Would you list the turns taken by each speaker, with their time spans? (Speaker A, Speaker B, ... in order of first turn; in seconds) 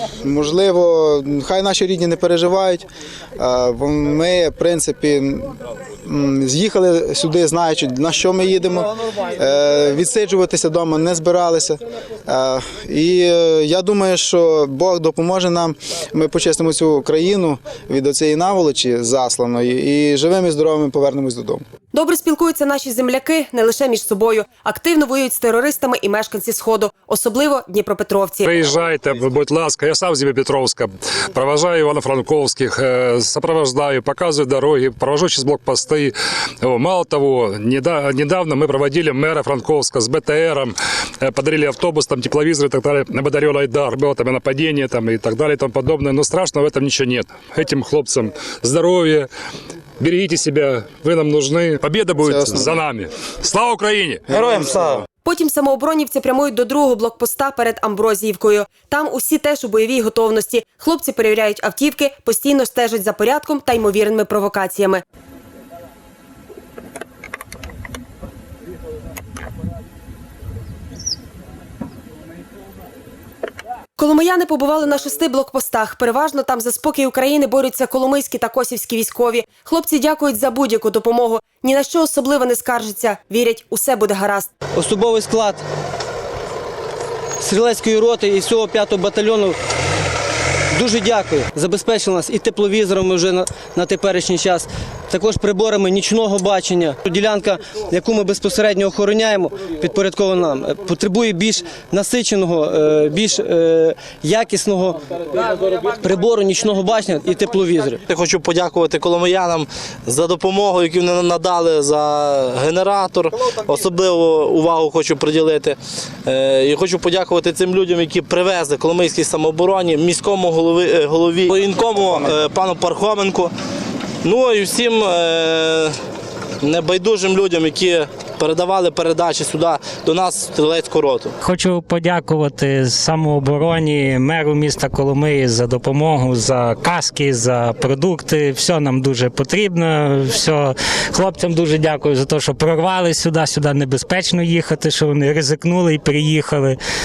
Speaker A: 0.2-21.6, 52.2-52.8, 54.3-55.0
Speaker B: 21.9-28.5, 55.2-65.0, 74.0-84.5
Speaker C: 28.4-49.3, 50.0-54.8
Speaker D: 84.7-85.6, 87.4-89.5, 90.7-105.0, 105.9-108.0
Speaker E: 108.1-123.5, 124.2-125.9, 126.6-131.3
Speaker F: 131.4-146.8